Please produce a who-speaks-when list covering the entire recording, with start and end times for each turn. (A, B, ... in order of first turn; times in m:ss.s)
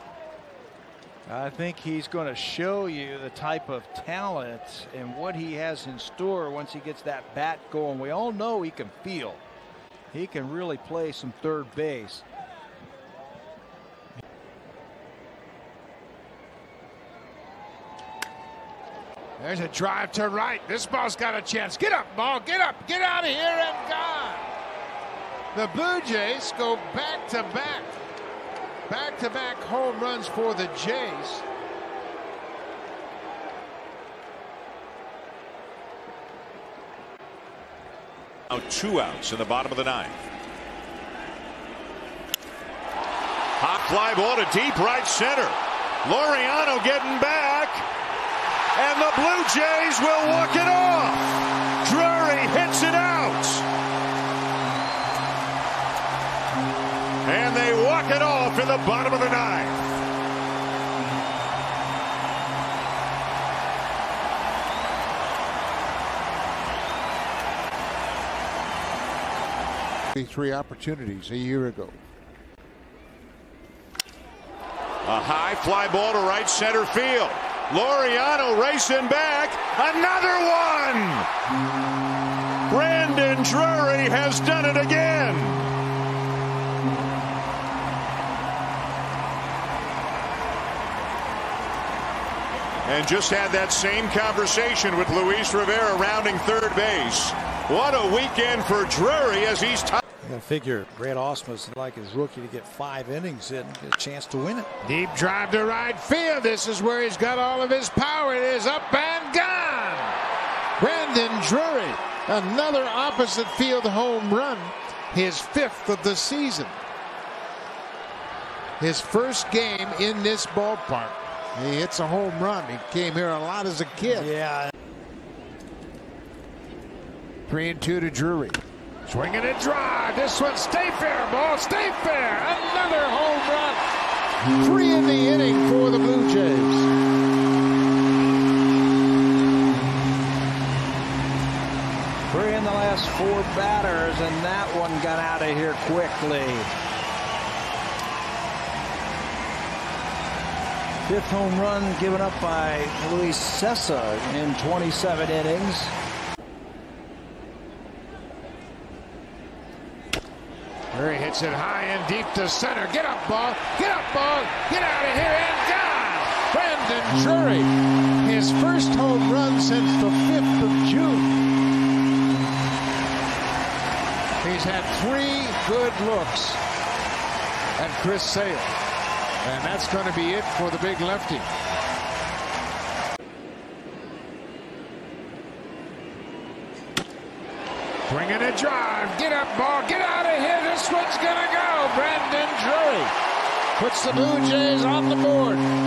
0:01.3-0:09.4 A
0:10.1-0:12.2 A
0:19.4-0:24.5 B
0:25.5-0:27.9 B
0:28.9-0:31.4 B
0:38.5-0:40.2 C
0:43.6-0:47.9 C
0:48.7-0:53.7 C
0:57.2-0:59.8 C
1:10.1-1:12.0 B
1:15.0-1:21.3 C
1:22.7-1:25.7 C
1:32.8-1:40.0 C
1:40.2-1:44.7 A
1:44.8-1:50.1 B
1:50.8-1:56.8 B
1:58.8-2:04.3 B
2:04.1-2:04.7 A
2:07.5-2:13.9 B
2:14.5-2:16.9 B
2:22.3-2:26.7 A
2:31.0-2:35.9 A
2:40.9-2:51.3 B
2:54.4-2:56.6 B
2:57.8-2:58.7 B
2:59.4-3:01.5 B
3:08.1-3:13.1 B
3:13.8-3:15.6 B